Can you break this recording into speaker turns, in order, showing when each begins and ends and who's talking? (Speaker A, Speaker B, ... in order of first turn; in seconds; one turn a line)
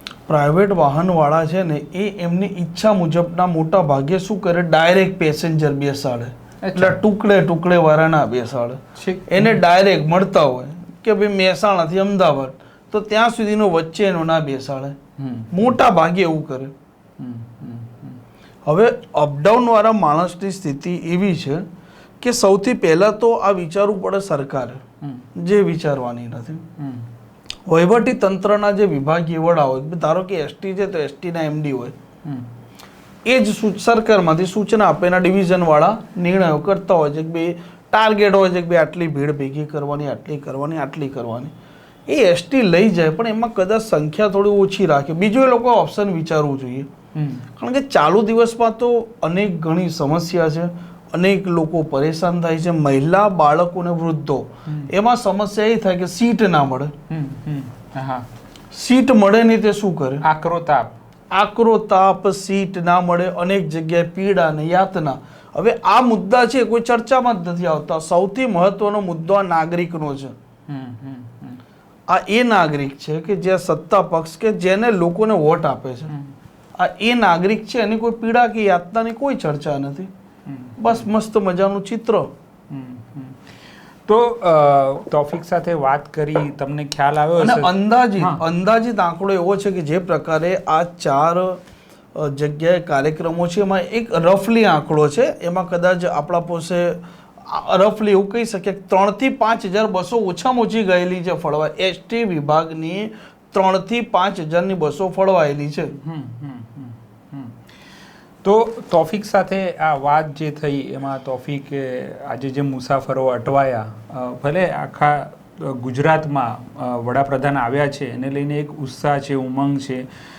Speaker A: 0.3-15.0
Speaker B: 6.6-7.0
Speaker B: 9.0-9.6
Speaker B: 15.2-15.7
Speaker A: 15.5-16.7
Speaker B: 17.2-18.2
Speaker A: 18.6-21.6
Speaker A: 22.2-24.8
Speaker A: 25.4-26.6
Speaker B: 26.8-27.1
Speaker A: 27.7-31.9
Speaker A: 33.2-41.5
Speaker A: 42.1-46.9
Speaker B: 47.1-47.5
Speaker A: 47.6-56.9
Speaker B: 57.1-58.3
Speaker A: 58.7-60.2
Speaker B: 60.2-61.0
Speaker A: 61.3-70.3
Speaker B: 70.7-71.6
Speaker A: 72.1-76.1
Speaker A: 76.8-80.1
Speaker B: 80.5-81.1
Speaker A: 80.8-82.3
Speaker B: 82.7-83.4
Speaker B: 84.1-88.4
Speaker A: 87.4-91.6
Speaker A: 92.1-106.0
Speaker B: 106.0-107.6
Speaker B: 108.4-120.0